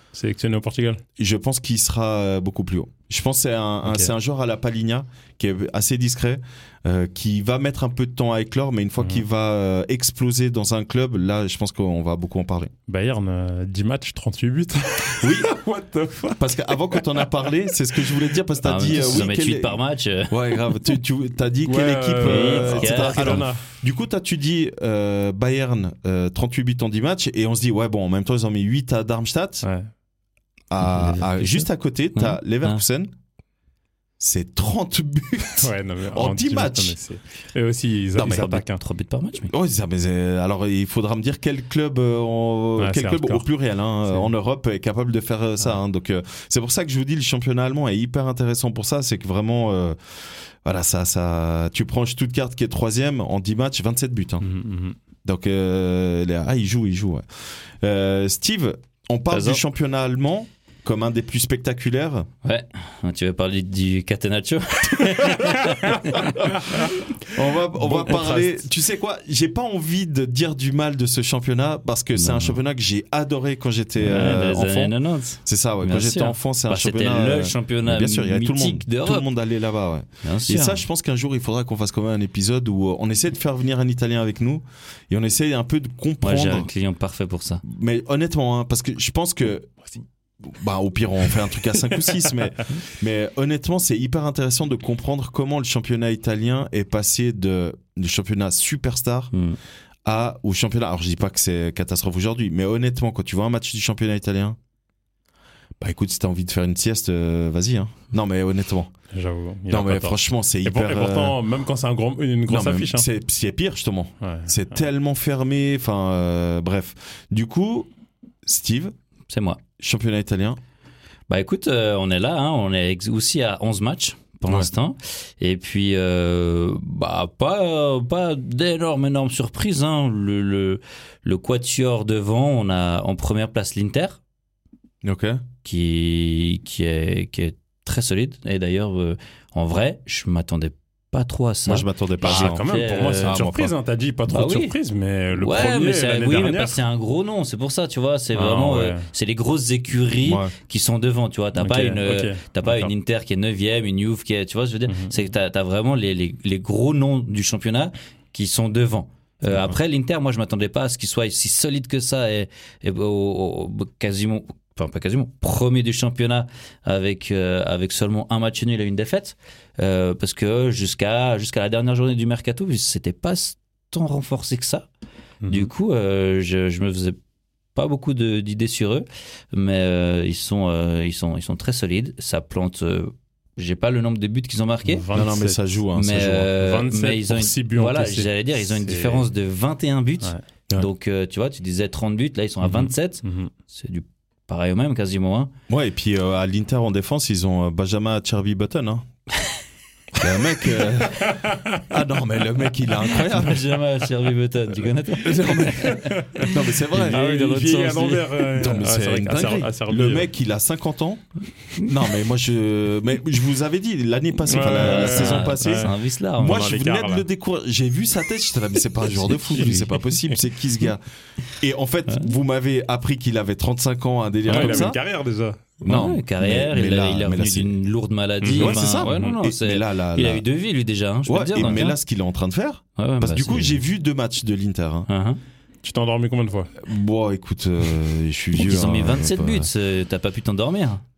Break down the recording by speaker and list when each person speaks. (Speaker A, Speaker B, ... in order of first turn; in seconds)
Speaker A: 0.1-1.0, 3.8-4.1, 12.9-17.3, 21.6-23.7, 29.6-29.9, 35.6-38.8, 42.8-43.5, 54.4-55.0, 67.7-68.6, 91.9-92.4, 109.1-113.1, 114.2-114.6, 142.2-146.8, 148.3-149.0, 151.6-152.9, 154.9-155.1, 175.4-175.7, 184.8-185.7, 186.5-189.2, 192.6-193.5, 201.1-201.8, 205.4-210.3, 214.4-217.2, 219.5-220.2, 224.5-225.8, 228.4-229.3, 235.8-236.7
Speaker B: 1.2-12.7, 15.2-15.5, 16.4-19.8, 20.3-29.6, 30.7-33.1, 34.2-37.0, 38.2-38.5, 39.5-54.5, 55.2-62.3, 66.4-86.7, 87.6-89.9, 90.4-99.3, 100.0-104.6, 105.8-108.9, 109.7-111.4, 112.5-117.9, 118.4-118.9, 119.8-120.6, 135.0-135.4, 141.7-142.6, 143.2-143.7, 150.2-150.5, 185.1-186.5, 195.7-199.1, 200.1-203.7, 205.2-207.6, 208.4-225.0, 225.8-227.7, 228.5-230.4, 231.2-235.1, 236.8-239.7
Speaker C: 18.6-20.4, 22.2-23.4, 30.8-32.8, 38.2-39.5, 59.3-59.6, 62.4-66.5, 72.1-72.6, 74.0-79.2, 80.2-80.8, 86.2-87.6, 99.3-99.6, 119.3-119.6, 121.3-134.2, 135.6-143.4, 144.3-144.7, 145.3-174.9, 175.5-177.2, 177.7-185.0, 185.9-195.5, 203.1-208.2, 214.8-216.6, 224.5-224.8, 225.8-232.0, 233.0-233.8, 235.1-235.4, 238.6-241.0